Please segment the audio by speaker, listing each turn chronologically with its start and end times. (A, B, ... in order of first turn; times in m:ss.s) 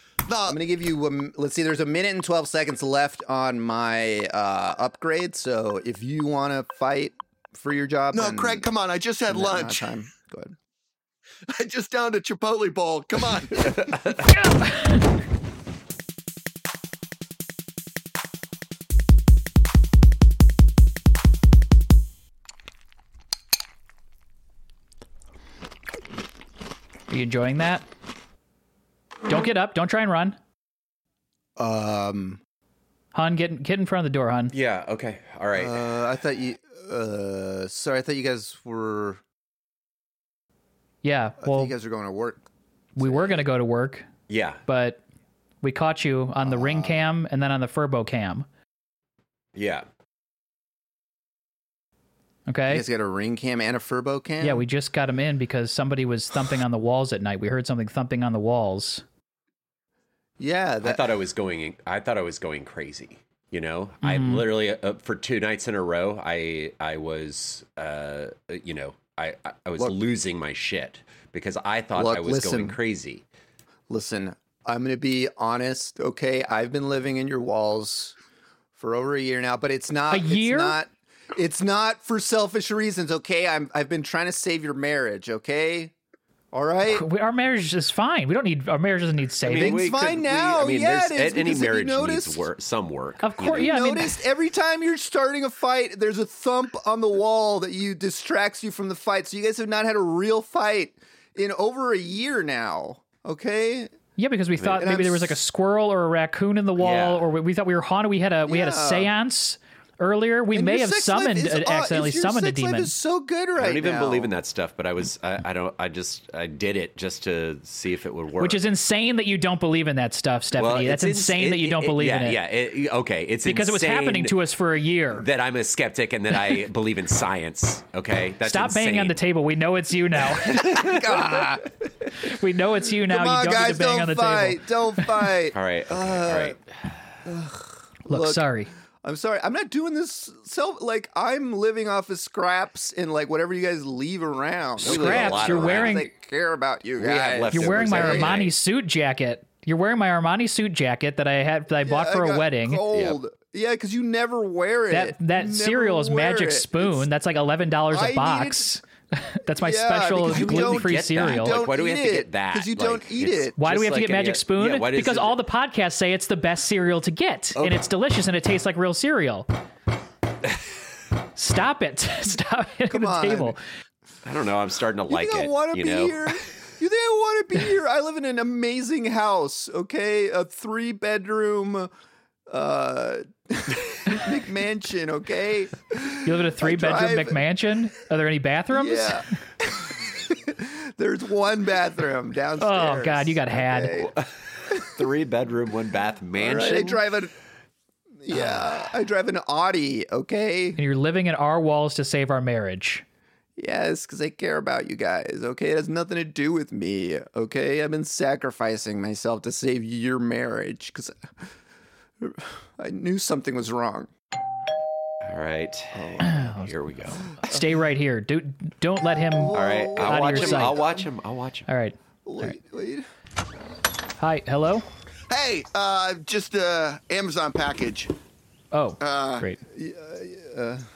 0:00.3-0:00.6 A
0:00.5-0:08.7 B
0:08.1-0:09.9 A
0:09.3-0:10.6 B
0:11.5-0:13.9 A
0:13.8-0:14.1 C
0:14.3-0:15.1 D
0:27.1-0:27.9 D
0:29.3-0:30.4 D
0:31.6-0:32.4 B
0:33.1-0:34.5 D
0:34.5-0:35.8 C
0:35.5-0:39.2 B
0:41.0-0:41.7 D
0:41.4-0:42.5 B
0:43.0-0:44.1 D
0:43.0-0:43.4 B
0:44.3-0:44.6 C
0:44.7-0:45.0 D
0:45.6-0:48.5 D
0:46.4-0:47.0 B
0:49.6-0:49.9 C
0:52.5-0:52.8 D
0:52.7-0:54.6 B
0:54.4-0:59.0 D
1:00.4-1:01.1 B
1:00.8-1:13.2 C
1:04.0-1:04.4 D
1:12.0-1:12.8 B
1:13.9-1:18.2 B
1:18.8-1:25.9 B
1:20.1-1:20.8 D
1:26.5-1:27.1 B
1:26.9-1:29.8 D
1:29.4-1:33.7 C
1:29.5-1:32.5 B
1:33.2-1:34.2 D
1:33.4-1:43.9 B
1:44.2-1:52.9 D
1:44.8-1:45.3 B
1:46.8-1:47.3 C
1:48.4-1:49.1 B
1:50.5-1:54.3 B
1:53.6-1:58.6 C
1:58.4-2:02.4 D
2:00.6-2:04.4 C
2:03.4-2:05.2 D
2:05.2-2:09.2 C
2:08.4-2:10.8 D
2:10.5-2:11.8 B
2:10.5-2:11.0 C
2:12.2-2:15.1 D
2:13.1-2:16.6 B
2:15.5-2:16.6 C
2:17.2-2:18.5 B
2:18.1-2:18.7 D
2:19.0-2:28.4 B
2:24.8-2:26.1 C
2:24.8-2:26.1 D
2:27.0-2:28.5 C
2:27.5-2:32.8 D
2:31.8-2:37.1 B
2:32.9-2:33.2 C
2:34.9-2:41.6 D
2:37.9-2:38.7 B
2:39.5-2:43.6 B
2:40.3-2:45.4 C
2:43.6-2:49.5 D
2:51.4-2:53.6 D
2:52.9-2:53.6 B
2:54.2-2:56.4 C
2:55.1-3:01.9 B
3:02.5-3:07.4 B
3:06.2-3:09.2 D
3:08.7-3:14.1 B
3:12.6-3:14.0 D
3:14.0-3:17.0 C
3:16.4-3:17.3 B
3:18.2-3:20.8 B
3:20.8-3:23.0 D
3:23.6-3:31.2 B
3:32.2-3:34.1 B
3:35.2-3:37.3 C
3:35.9-3:36.4 B
3:36.2-3:40.8 D
3:37.3-3:37.6 B
3:39.2-3:41.1 B
3:39.5-3:41.7 C
3:41.7-3:42.6 D
3:42.2-3:43.1 B
3:44.2-3:44.9 D
3:45.3-3:48.1 A
3:48.7-3:49.6 D
3:49.0-3:49.5 A
3:49.7-3:50.9 B